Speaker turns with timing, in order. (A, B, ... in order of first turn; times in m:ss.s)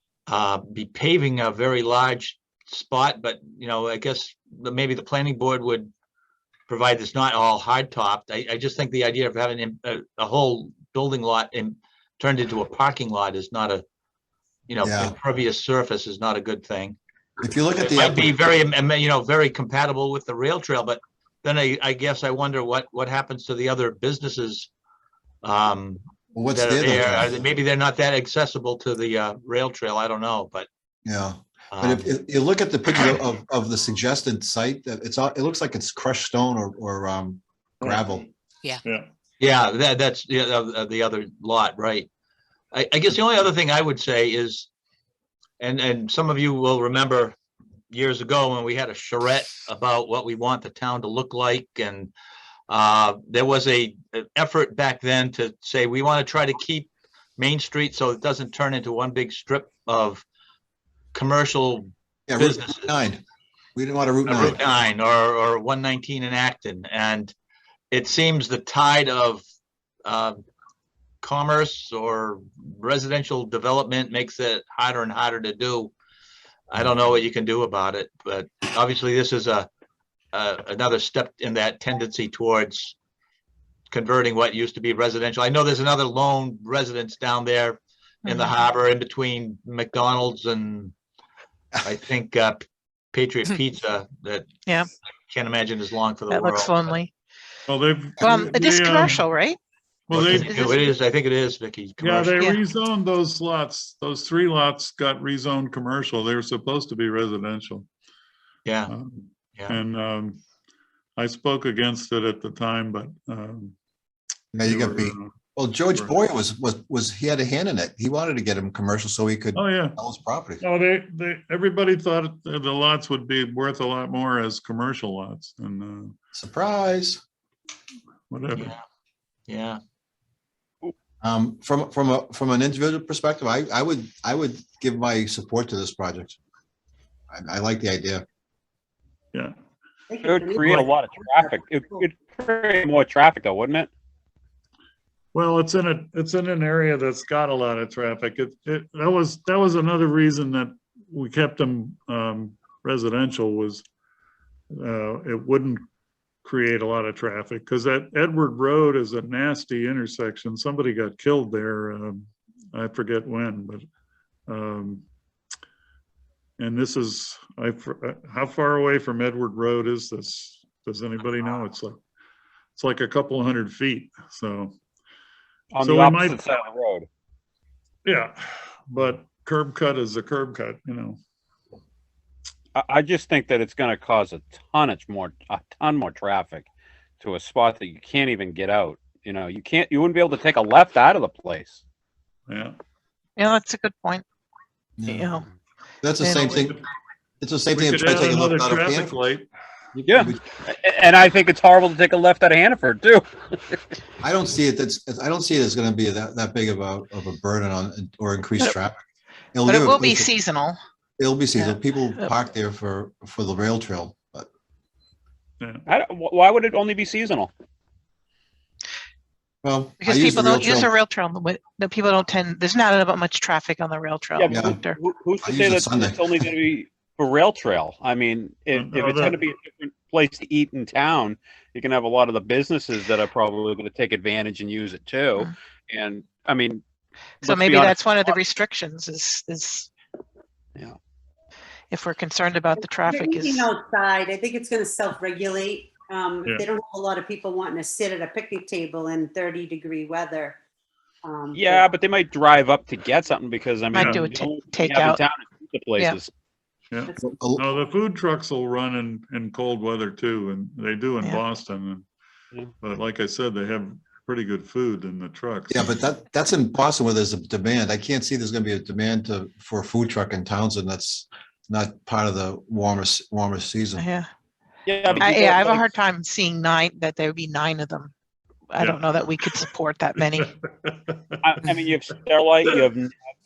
0:00.3-0:05.9 A
0:06.7-0:13.8 A
0:14.7-0:17.0 A
0:14.8-0:15.2 B
0:17.4-0:18.3 B
0:17.8-0:24.7 A
0:25.4-0:26.0 A
0:26.3-0:27.4 B
0:26.5-0:30.7 A
0:31.0-0:38.3 B
0:31.7-0:32.1 A
0:37.8-0:38.2 C
0:38.8-0:39.1 C
0:39.4-0:42.1 A
0:42.7-0:44.7 A
0:45.6-0:47.4 A
0:47.9-0:52.1 A
0:52.7-1:00.2 A
1:01.1-1:02.9 A
1:02.3-1:03.2 B
1:03.8-1:04.6 B
1:04.3-1:07.3 A
1:07.9-1:09.4 A
1:10.1-1:10.4 A
1:11.2-1:15.9 A
1:16.7-1:19.7 A
1:20.3-1:23.0 A
1:23.9-1:30.9 A
1:28.3-1:28.5 D
1:31.8-1:34.5 A
1:35.3-1:36.9 A
1:36.3-1:37.1 D
1:37.7-1:39.3 C
1:38.2-1:39.6 D
1:40.1-1:40.7 C
1:40.1-1:42.4 A
1:40.4-1:40.9 D
1:42.0-1:47.9 C
1:48.6-1:48.9 A
1:48.9-1:50.4 C
1:51.2-1:53.8 C
1:54.5-2:00.6 B
1:54.6-1:55.3 C
1:59.6-2:00.0 C
2:00.6-2:06.2 C
2:06.3-2:07.2 B
2:08.3-2:08.7 C
2:09.5-2:09.8 A
2:11.2-2:16.4 B
2:17.3-2:18.2 B
2:20.1-2:21.6 E
2:20.2-2:23.9 F
2:25.3-2:33.8 C
2:34.7-2:35.8 C
2:36.4-2:43.8 C
2:44.5-2:45.0 C
2:46.6-2:52.0 C
2:52.8-2:54.7 C
2:55.7-2:57.1 F
2:55.8-2:56.4 C
2:58.0-3:01.2 C
3:02.8-3:06.7 F
3:07.2-3:11.8 F
3:12.5-3:12.8 C
3:13.4-3:14.2 D
3:15.0-3:15.3 B
3:15.1-3:15.5 D
3:16.0-3:16.8 B
3:16.2-3:16.6 D
3:16.4-3:16.7 C
3:17.4-3:19.2 B
3:17.8-3:19.5 C
3:19.9-3:23.8 F
3:20.2-3:20.4 B
3:24.2-3:29.0 B
3:29.5-3:30.3 B
3:29.6-3:30.8 D
3:31.2-3:34.5 B
3:35.6-3:35.8 C
3:35.9-3:37.5 F
3:39.6-3:40.9 B
3:40.0-3:45.0 D
3:44.4-3:56.8 F
3:44.5-3:44.8 B
3:45.4-3:46.4 B
3:48.7-3:49.4 C
3:57.4-3:58.4 F
3:57.4-3:59.9 D
4:01.9-4:03.7 D
4:02.8-4:10.6 E
4:11.2-4:11.9 E
4:11.5-4:16.3 F
4:13.9-4:15.2 D
4:13.9-4:14.3 C
4:16.9-4:22.1 C
4:17.2-4:17.7 B
4:22.8-4:25.7 C
4:25.7-4:34.0 B
4:34.0-4:34.3 D
4:34.8-4:35.9 F
4:35.2-4:38.1 D
4:38.7-4:40.5 D
4:38.8-4:41.3 C
4:41.4-4:43.1 F